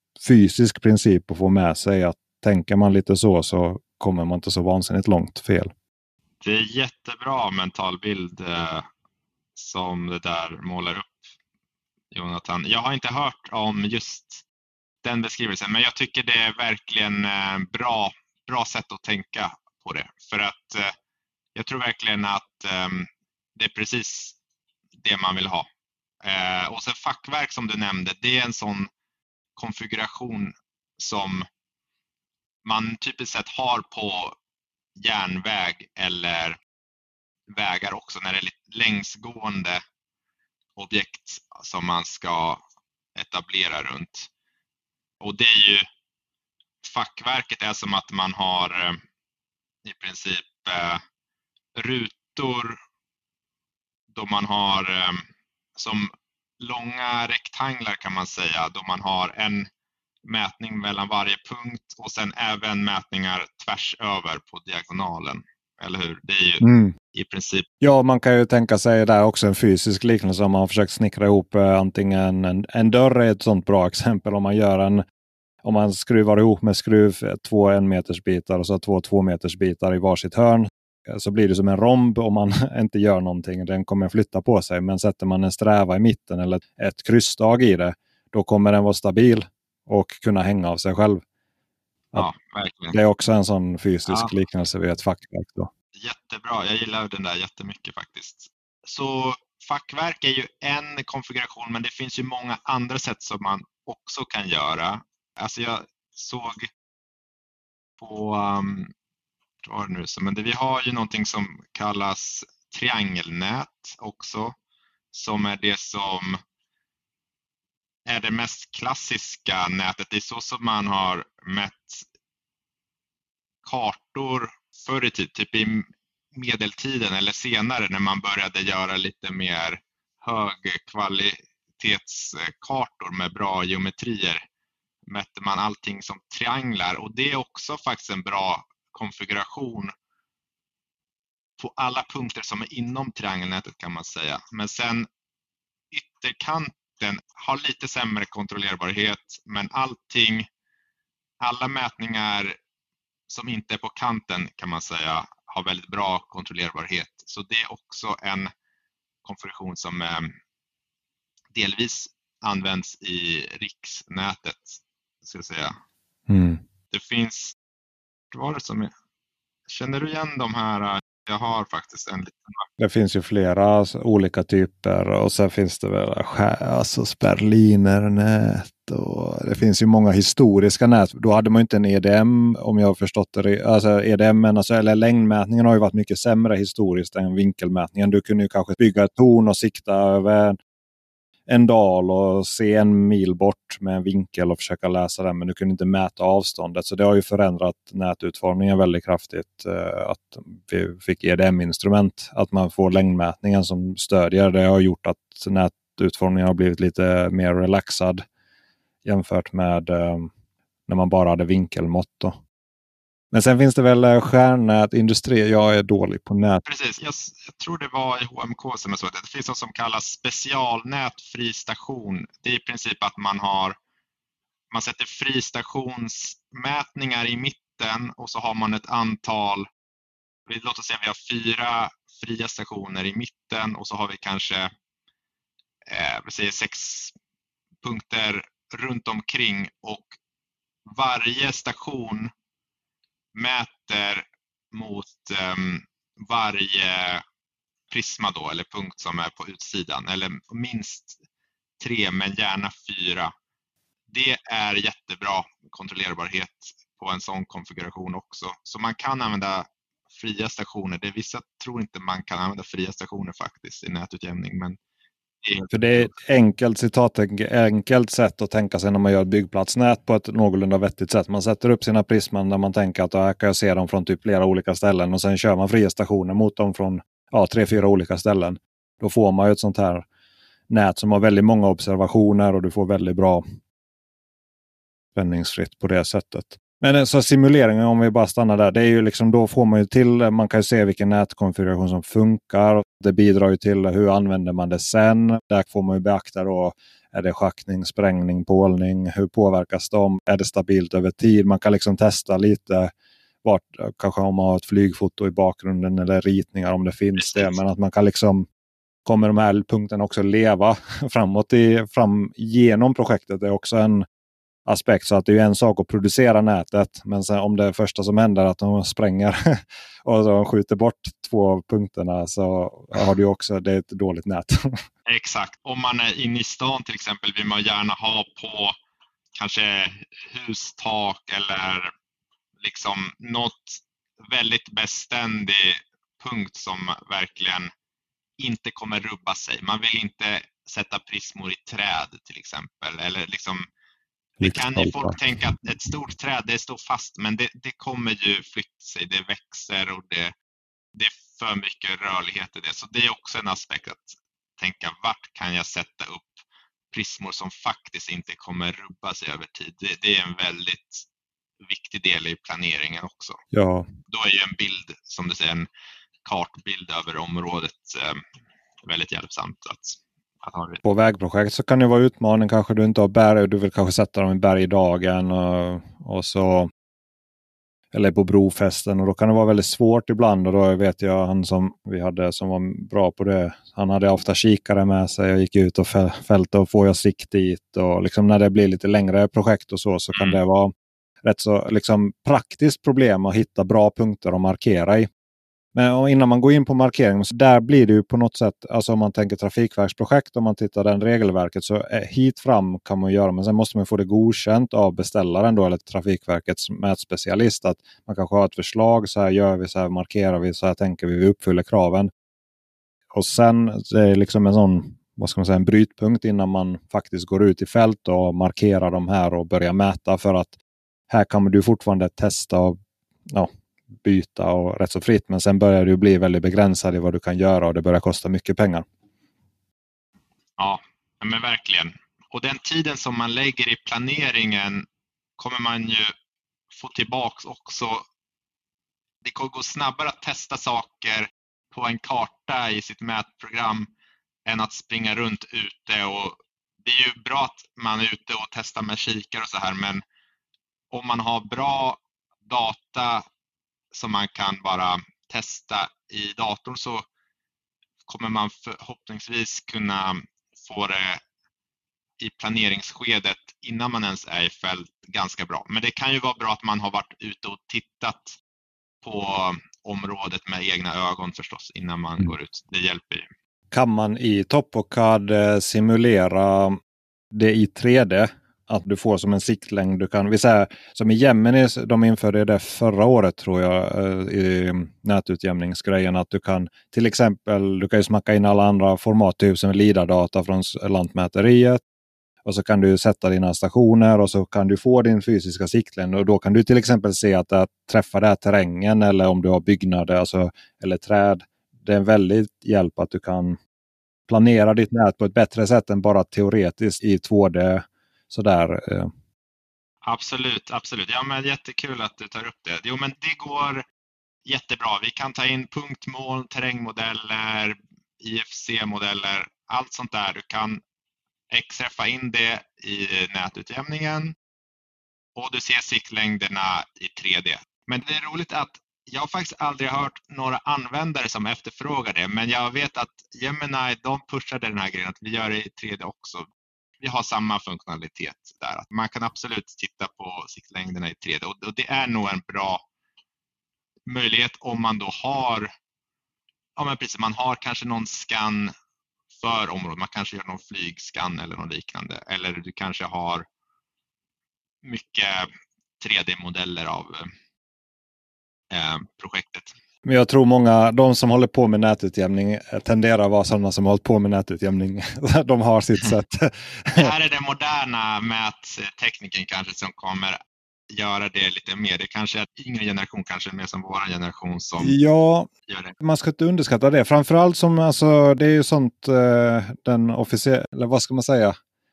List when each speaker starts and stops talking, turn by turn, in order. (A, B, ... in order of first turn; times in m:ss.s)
0:00.2-0:05.7 A
0:06.4-0:08.9 B
0:09.5-0:11.2 B
0:12.1-0:14.4 B
0:15.0-0:20.9 B
0:21.5-0:24.4 B
0:25.0-0:25.7 B
0:26.2-0:28.9 B
0:29.6-0:31.5 B
0:32.6-0:34.4 B
0:35.0-0:36.6 B
0:37.5-0:39.8 B
0:40.8-0:42.6 B
0:43.1-0:44.3 B
0:45.2-0:45.8 B
0:46.8-0:49.0 B
0:49.8-0:51.0 B
0:51.8-0:52.8 B
0:54.1-0:55.2 B
0:55.8-0:59.7 B
1:00.2-1:07.7 B
1:06.6-1:06.9 A
1:07.8-1:15.0 A
1:15.6-1:31.2 A
1:32.1-1:33.0 B
1:32.9-1:35.7 A
1:36.0-1:46.7 B
1:48.0-1:48.9 B
1:49.6-1:54.5 B
1:55.1-1:56.4 B
1:58.0-2:02.0 B
2:03.6-2:14.4 B
2:15.1-2:19.9 B
2:21.6-2:25.1 B
2:25.9-2:30.5 B
2:31.4-2:32.6 B
2:33.3-2:38.5 B
2:39.2-2:40.3 B
2:41.5-2:45.8 B
2:46.3-2:46.6 A
2:46.9-2:47.6 B
2:48.3-2:48.9 B
2:49.7-2:52.6 B
2:52.8-3:10.6 A
3:11.5-3:28.2 A
3:29.0-3:30.3 A
3:30.9-3:32.4 A
3:33.3-3:36.6 A
3:36.6-3:43.8 B
3:44.7-3:49.7 B
3:50.5-3:54.7 B
3:55.9-3:57.1 B
3:57.8-4:00.2 B
4:00.9-4:02.3 B
4:03.3-4:07.2 B
4:07.9-4:11.2 B
4:11.8-4:13.3 B
4:14.1-4:24.8 B
4:25.4-4:26.2 B
4:25.7-4:40.0 A
4:40.7-4:43.4 A
4:45.1-5:02.9 A
5:03.4-5:08.5 A
5:07.2-5:07.6 B
5:09.0-5:14.0 A
5:14.6-5:24.7 A
5:25.0-5:28.7 B
5:29.3-5:31.9 B
5:32.6-5:37.7 B
5:38.4-5:43.7 B
5:44.4-5:50.3 B
5:44.4-5:45.2 A
5:50.9-6:01.0 B
6:01.6-6:03.4 B
6:03.5-6:03.9 A
6:04.1-6:05.7 B
6:06.2-6:08.2 B
6:08.8-6:10.8 B
6:10.8-6:16.7 A
6:17.9-6:30.7 A
6:30.1-6:30.4 B
6:31.2-6:35.1 A
6:35.7-6:52.1 A
6:53.1-7:00.5 A
7:01.1-7:02.8 A
7:04.0-7:08.8 A
7:10.6-7:14.8 B
7:15.4-7:16.1 B
7:16.7-7:18.0 B
7:19.2-7:23.9 B
7:24.4-7:30.0 B
7:30.9-7:33.2 B
7:33.9-7:37.0 B
7:38.0-7:41.2 B
7:42.2-7:48.4 B
7:49.0-7:53.3 B
7:53.7-7:56.8 A
7:57.3-8:11.8 A
8:12.4-8:23.6 A
8:24.3-8:29.1 A
8:30.0-8:33.8 B
8:34.4-8:40.8 B
8:41.5-8:44.4 B
8:45.4-8:56.4 B
8:57.0-9:02.8 B
9:04.1-9:05.7 B
9:06.8-9:08.7 B
9:09.4-9:13.4 B
9:14.8-9:17.3 B
9:18.7-9:19.7 B
9:20.0-9:27.1 A
9:26.9-9:30.4 B
9:30.9-9:35.0 B
9:34.8-9:35.5 A
9:35.7-9:35.9 B
9:36.0-9:41.5 A